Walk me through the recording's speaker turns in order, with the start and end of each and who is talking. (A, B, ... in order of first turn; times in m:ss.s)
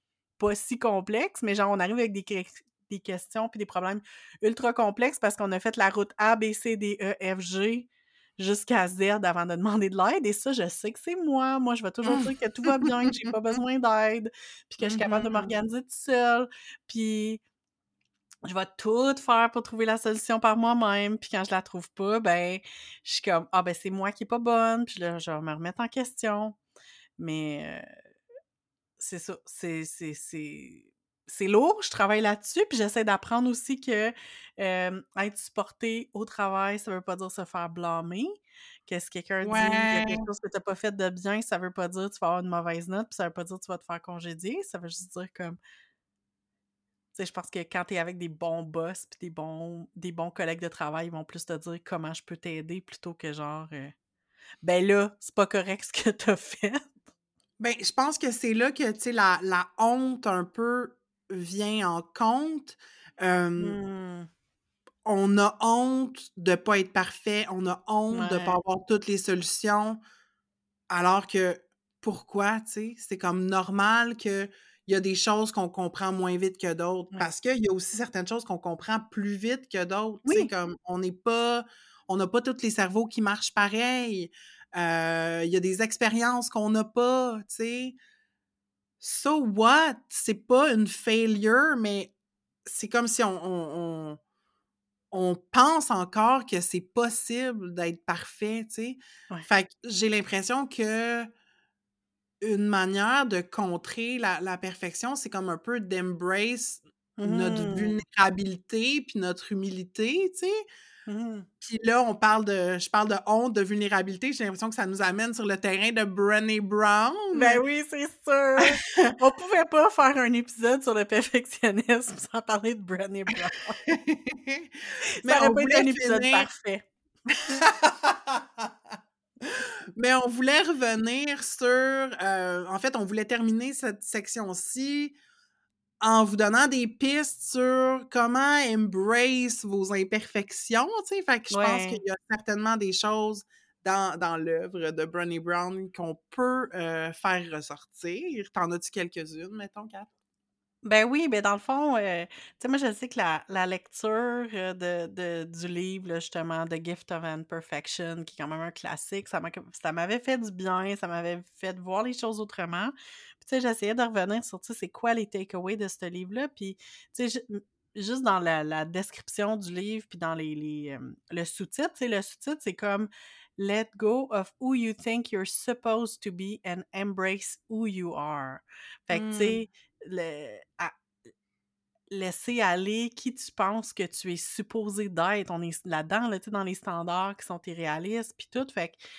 0:00.4-0:17.4 A
0:12.0-0:13.1 B
0:14.8-0:15.5 B
0:18.4-0:26.6 A
0:27.2-0:28.0 A
0:29.0-0:45.6 A
0:39.4-0:40.3 B
0:47.1-0:53.9 A
0:54.6-0:56.9 A
0:57.6-1:03.8 B
1:03.6-1:04.3 A
1:05.0-1:10.0 B
1:08.1-1:08.6 A
1:10.9-1:28.0 B
1:29.0-1:32.1 B
1:32.6-1:34.2 B
1:35.1-1:41.3 B
1:42.4-1:50.6 B
1:47.2-1:47.9 A
1:51.1-1:51.5 A
1:51.6-1:57.6 B
1:57.3-2:03.8 A
1:58.6-1:59.2 B
2:03.9-2:06.5 B
2:05.2-2:06.9 A
2:07.4-2:08.7 B
2:09.4-2:15.1 B
2:16.0-2:30.1 B
2:21.5-2:22.0 A
2:30.8-3:00.9 A
2:59.1-2:59.6 B
3:02.1-3:09.0 A